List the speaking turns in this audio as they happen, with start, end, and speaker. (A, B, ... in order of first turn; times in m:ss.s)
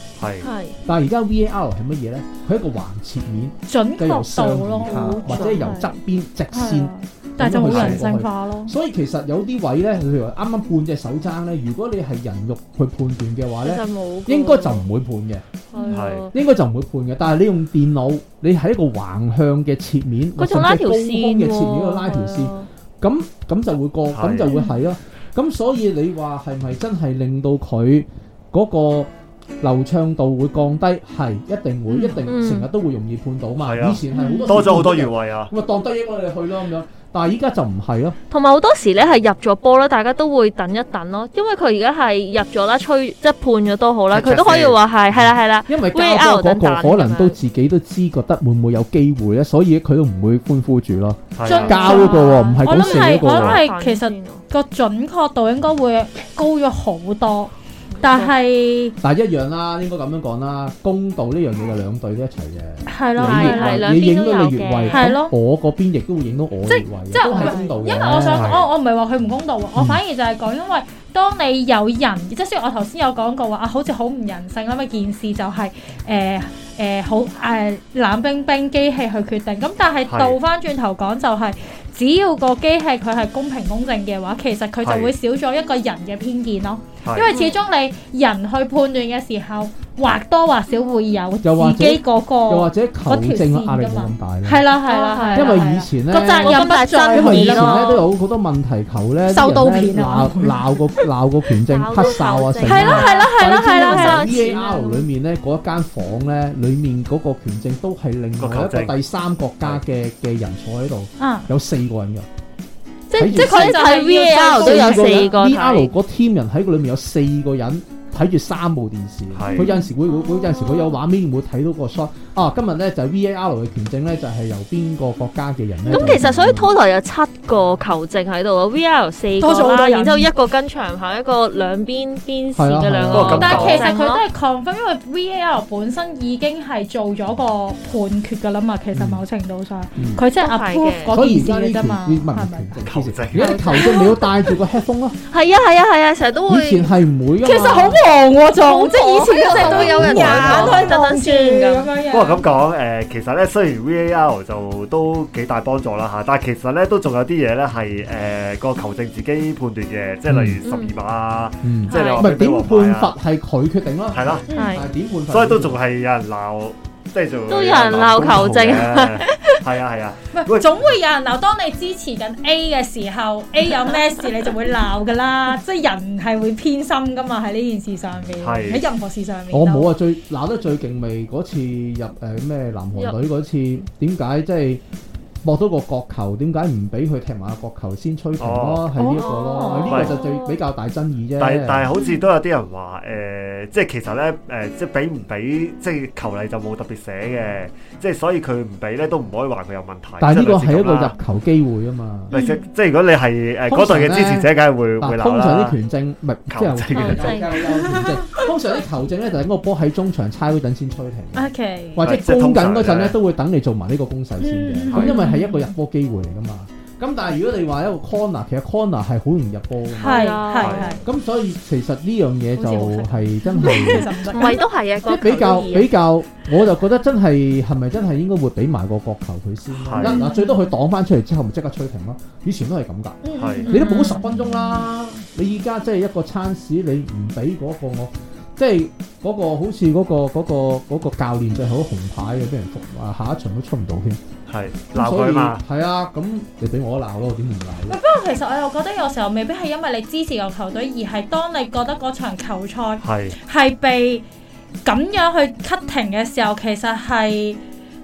0:00.2-0:00.5 A
0:00.4-0:00.8 B
0:00.8-0:15.4 C
0:03.7-0:05.9 D
0:04.8-0:05.8 B
0:06.5-0:08.7 D
0:07.6-0:08.0 A
0:13.6-0:14.8 B
0:15.7-0:16.3 B
0:15.7-0:16.0 D
0:15.9-0:16.3 A
0:16.3-0:38.2 C
0:20.4-0:22.7 B
0:24.1-0:24.5 A
0:24.5-0:24.8 D
0:31.9-0:32.7 B
0:33.6-0:35.5 A
0:34.1-0:34.6 D
0:38.3-0:47.4 B
0:44.1-0:45.3 A
0:45.7-0:53.6 C
0:51.3-0:51.8 A
0:51.4-0:58.9 D
0:51.6-0:54.4 B
0:57.9-0:58.3 B
0:59.0-1:08.5 C
1:02.9-1:04.0 D
1:03.2-1:05.1 B
1:04.9-1:05.3 D
1:06.7-1:38.0 D
1:07.2-1:07.8 B
1:08.3-1:08.7 A
1:20.1-1:20.4 A
1:24.8-1:25.1 A
1:27.0-1:27.3 A
1:27.3-1:27.6 B
1:31.4-1:34.6 C
1:34.8-1:38.0 B
1:35.3-1:52.3 C
1:39.3-1:40.6 D
1:41.7-1:44.8 B
1:42.6-1:45.0 D
1:48.4-1:48.9 A
1:51.2-1:51.5 D
1:53.1-1:55.4 D
1:53.2-1:53.8 C
1:53.2-1:55.9 B
1:54.6-2:06.7 C
1:59.3-1:59.7 A
1:59.6-1:59.9 D
2:00.3-2:00.9 B
2:05.8-2:06.2 D
2:05.9-2:14.2 B
2:09.4-2:10.3 D
2:12.6-2:13.8 C
2:13.1-2:13.9 A
2:13.4-2:22.8 D
2:18.9-2:19.2 C
2:20.0-2:20.2 C
2:20.3-2:21.2 B
2:21.1-2:25.2 C
2:22.8-2:23.6 A
2:23.4-2:24.2 B
2:23.7-2:24.1 D
2:25.3-2:26.9 B
2:26.5-2:28.0 C
2:27.4-2:32.4 D
2:27.6-2:28.0 B
2:28.6-2:31.9 B
2:29.5-2:30.9 C
2:32.1-2:43.1 A
2:40.3-2:40.6 C
2:40.6-2:40.9 B
2:41.6-2:45.8 C
2:41.9-2:42.3 B
2:44.1-2:44.4 A
2:44.5-2:44.8 D
2:44.5-2:44.8 B
2:45.3-2:50.9 A
2:47.5-2:49.6 B
2:50.3-2:59.9 D
2:58.4-2:58.8 A
2:59.5-3:04.8 C
3:05.4-3:11.9 C
3:08.4-3:08.9 A
3:09.0-3:09.8 D
3:09.1-3:10.6 B
3:09.8-3:10.2 A
3:11.4-3:21.1 A
3:20.2-3:22.3 C
3:22.3-3:25.8 A
3:22.3-3:22.6 D
3:23.7-3:40.4 C
3:26.5-3:27.4 A
3:26.9-3:27.8 B
3:27.5-3:28.5 D
3:31.3-3:32.1 D
3:32.0-3:33.2 A
3:34.4-3:35.7 D
3:34.9-3:35.2 A
3:39.9-3:41.0 B
3:39.9-3:41.0 D
3:40.6-3:40.9 A
3:41.0-4:04.2 C
3:42.6-3:44.6 D
3:43.6-3:45.9 B
3:49.8-3:50.2 A
3:50.0-3:50.7 D
3:53.2-3:54.8 D
3:53.4-3:53.7 A
3:53.7-3:54.3 B
4:04.5-4:05.6 A
4:04.9-4:08.0 C
4:07.9-4:14.2 D
4:13.0-4:13.3 A
4:14.8-4:17.6 D